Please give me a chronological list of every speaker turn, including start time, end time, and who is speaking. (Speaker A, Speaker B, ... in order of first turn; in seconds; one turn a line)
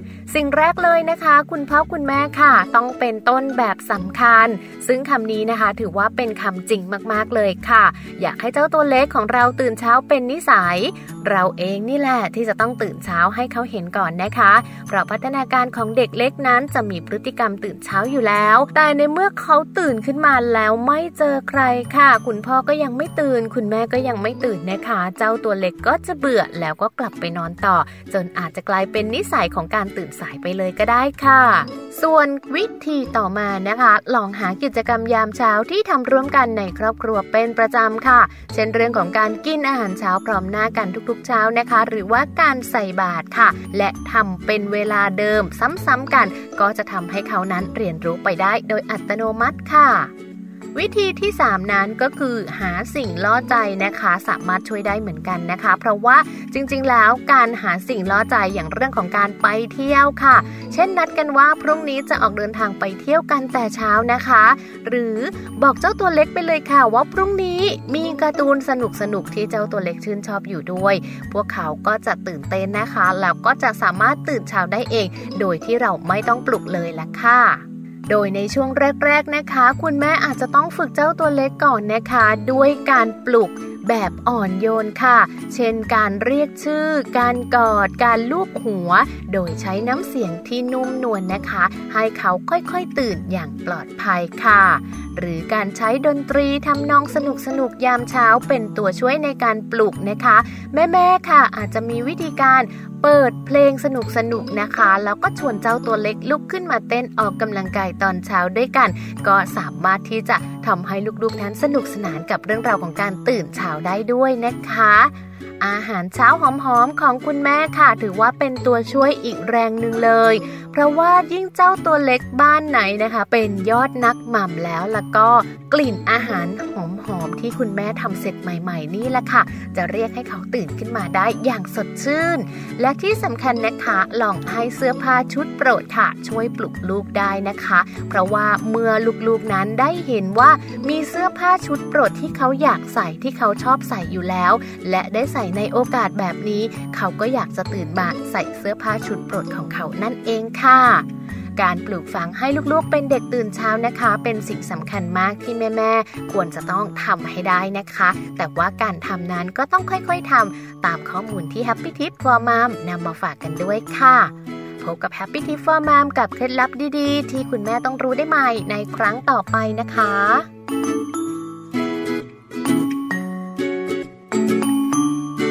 Speaker A: 0.3-50.1
Speaker A: 50.7-151.1
Speaker A: 151.6-170.5